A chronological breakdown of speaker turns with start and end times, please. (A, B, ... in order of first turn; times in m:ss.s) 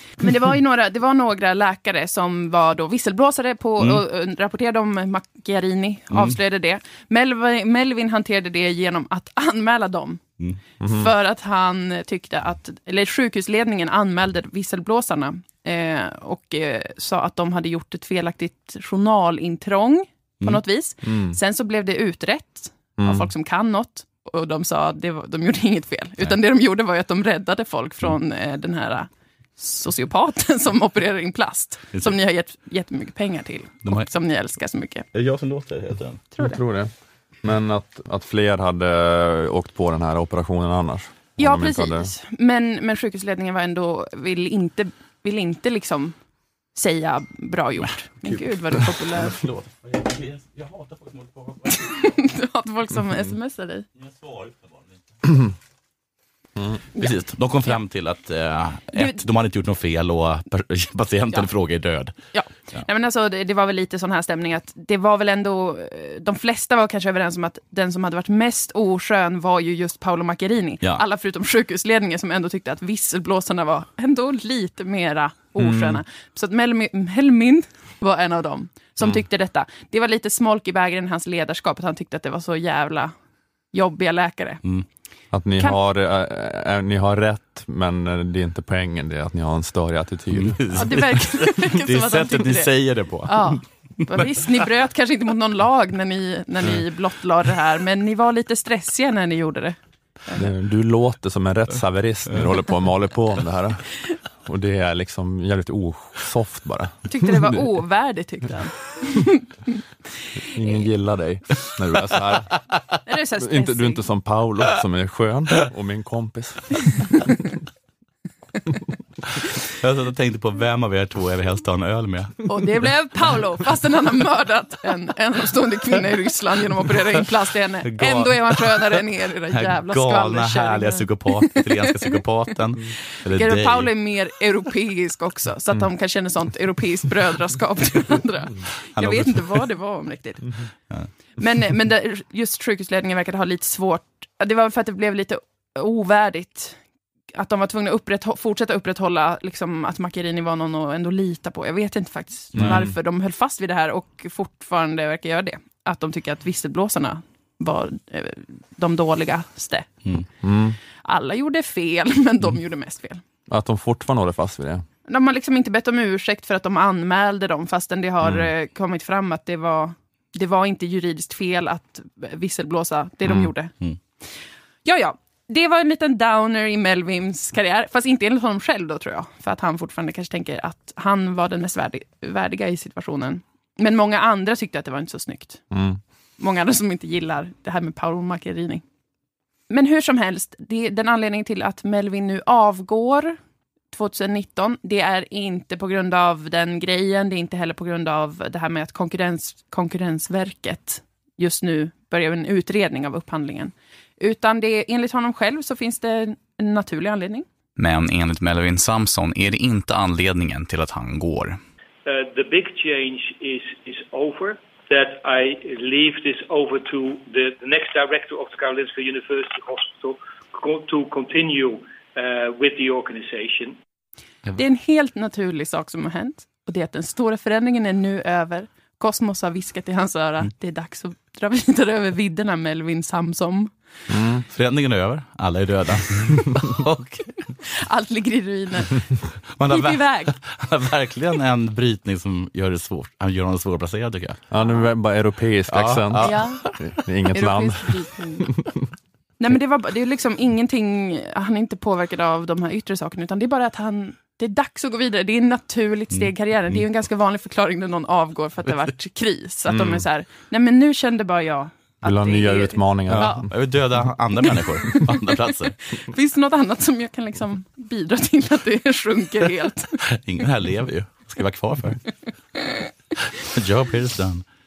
0:00.2-0:10.2 A
0:10.8-0:11.1 B
0:10.9-0:35.0 A
0:21.0-0:21.4 B
0:23.0-0:23.3 B
0:35.1-0:36.2 C
0:36.3-0:36.6 A
0:36.4-0:36.9 B
0:37.4-0:42.1 B
0:41.4-0:46.2 A
0:46.7-0:49.4 A
0:48.2-0:52.1 C
0:51.7-0:53.8 A
0:54.0-0:54.9 C
0:57.0-0:57.8 A
0:57.0-1:02.1 C
1:02.3-1:23.1 A
1:15.6-1:16.0 B
1:23.7-1:24.6 A
1:25.3-1:31.0 B
1:30.3-1:33.6 C
1:30.7-1:32.7 A
1:33.2-1:40.5 A
1:40.3-1:43.9 B
1:44.4-1:47.5 B
1:47.1-1:49.4 A
1:50.4-1:52.6 B
1:53.0-1:54.1 A
1:53.4-1:57.0 B
1:59.8-2:02.5 C
2:02.4-2:12.2 A
2:07.9-2:09.0 C
2:09.5-2:13.9 C
2:13.3-2:20.6 A
2:19.0-2:19.6 C
2:21.4-2:26.8 A
2:27.3-2:40.0 A
2:32.5-2:32.9 B
2:40.4-2:40.8 B
2:41.0-2:43.2 A
2:43.5-2:44.8 B
2:45.1-2:53.7 A
2:53.2-2:54.0 C
2:54.8-3:05.6 A
3:05.7-3:06.0 B
3:06.4-3:08.8 A
3:09.7-3:13.4 A
3:13.9-3:27.4 A
3:27.8-3:31.6 D
3:32.0-3:43.8 E
3:44.5-3:53.7 A
3:54.1-3:54.4 B
3:54.5-3:57.1 C
3:57.7-3:59.1 A
3:59.6-4:04.4 C
3:59.7-4:00.3 A
4:04.5-4:08.7 B
4:04.6-4:04.8 A
4:05.7-4:06.7 C
4:06.2-4:06.7 A
4:07.3-4:08.5 A
4:09.4-4:23.4 A
4:16.1-4:16.8 C
4:19.7-4:20.0 B
4:22.0-4:23.5 B
4:23.1-4:25.8 C
4:26.0-4:30.0 A
4:30.1-4:32.1 C
4:33.3-4:34.4 C